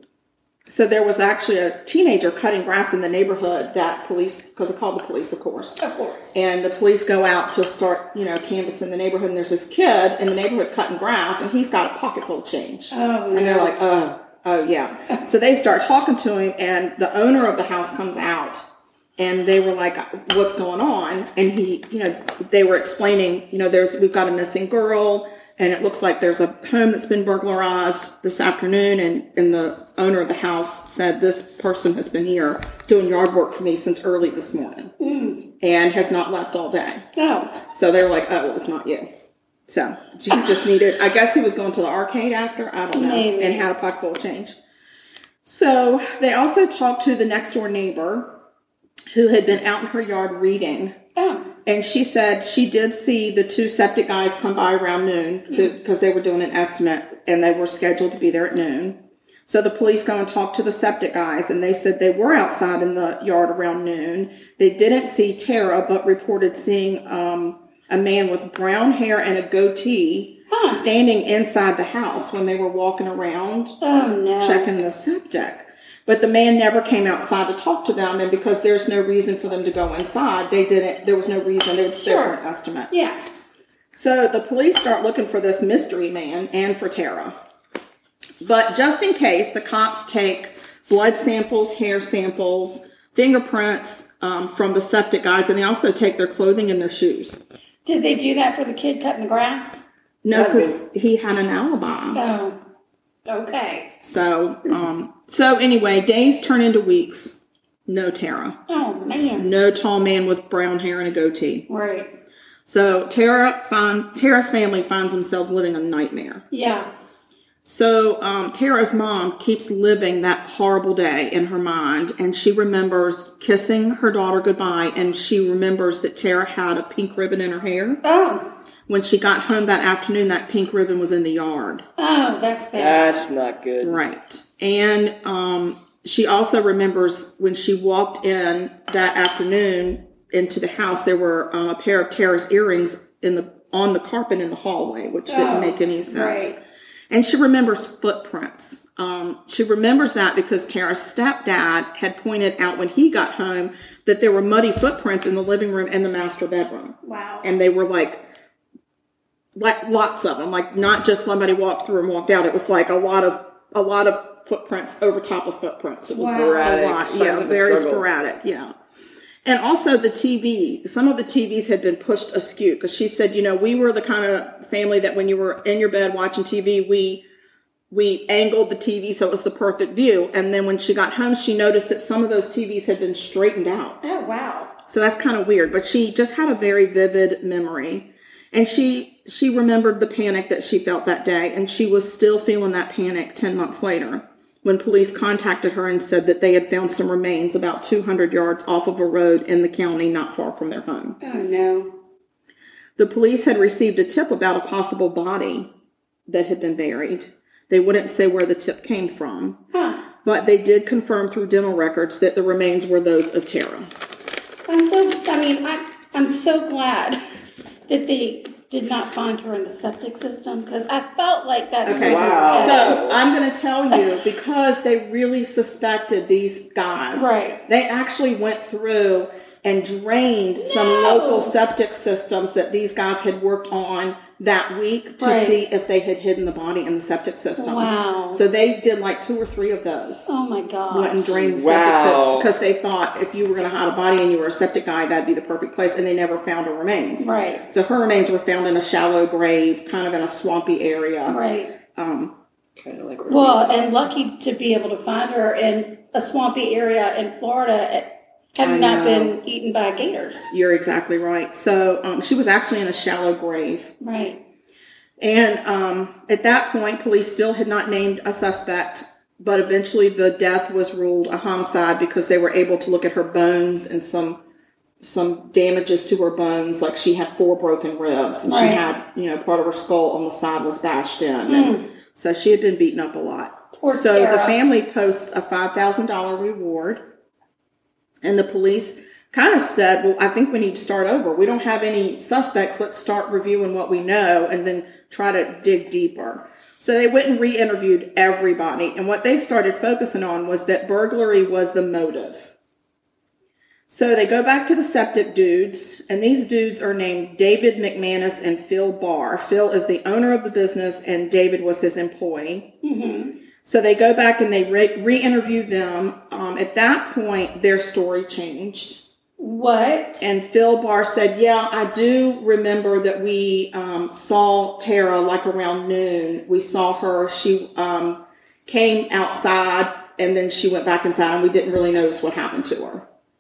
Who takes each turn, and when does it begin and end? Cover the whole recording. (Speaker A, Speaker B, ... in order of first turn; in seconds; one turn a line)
Speaker A: 0.7-5.8
Speaker B: 5.8-6.3
Speaker A: 6.3-18.6
Speaker B: 12.9-13.7
Speaker A: 19.2-34.9
Speaker B: 35.0-35.5
Speaker A: 35.6-37.0
Speaker B: 37.2-37.6
Speaker A: 37.7-39.1
Speaker A: 39.7-44.5
Speaker B: 42.9-43.6
Speaker A: 45.5-48.4
Speaker A: 49.1-51.0
Speaker B: 51.2-51.5
Speaker A: 51.7-73.8
Speaker B: 70.5-70.8
Speaker B: 73.8-74.7
Speaker A: 74.4-82.9
Speaker B: 82.0-82.4
Speaker B: 82.9-83.2
Speaker A: 83.9-87.4
Speaker A: 88.4-97.4
Speaker B: 97.8-99.8
Speaker A: 100.2-102.2
Speaker C: 100.3-100.8
Speaker B: 102.2-102.6
Speaker B: 103.3-103.9
Speaker A: 104.0-108.6
Speaker B: 108.7-109.5
Speaker A: 109.4-111.7
Speaker B: 111.7-112.1
Speaker A: 112.7-116.4
Speaker B: 116.5-116.9
Speaker A: 117.7-128.0
Speaker B: 128.0-128.5
Speaker A: 128.9-131.9
Speaker B: 132.0-133.3
Speaker C: 132.8-134.0
Speaker A: 133.8-146.6
Speaker B: 145.3-146.6
Speaker A: 147.1-158.2
Speaker B: 157.0-157.5
Speaker A: 159.6-168.7
Speaker B: 166.1-166.7
Speaker C: 166.2-168.1
Speaker A: 169.4-177.2
Speaker A: 177.9-184.1
Speaker B: 184.0-184.7
Speaker A: 184.9-201.2
Speaker B: 201.2-201.9
Speaker A: 203.0-205.7
Speaker A: 206.3-209.6
Speaker B: 209.7-210.1
Speaker A: 210.2-213.9
Speaker B: 214.7-217.2
Speaker B: 217.9-223.0
Speaker A: 221.9-240.3
Speaker C: 221.9-223.2
Speaker B: 227.2-227.6
Speaker B: 230.6-231.5
Speaker B: 235.2-235.6
Speaker B: 237.6-238.4
Speaker B: 240.3-241.3
Speaker A: 240.9-251.4
Speaker C: 241.3-242.5
Speaker B: 247.2-247.7
Speaker B: 251.3-251.8
Speaker A: 251.9-252.4
Speaker C: 252.8-253.8
Speaker B: 253.3-260.5
Speaker A: 258.6-259.4
Speaker A: 260.5-263.9
Speaker B: 264.0-264.4
Speaker A: 265.2-274.4
Speaker A: 275.0-287.0
Speaker B: 278.5-278.8
Speaker B: 281.5-281.9
Speaker B: 283.8-284.6
Speaker A: 288.2-302.5
Speaker A: 303.9-312.7
Speaker B: 312.8-313.4
Speaker A: 313.6-319.0
Speaker B: 319.4-320.3
Speaker A: 320.2-333.1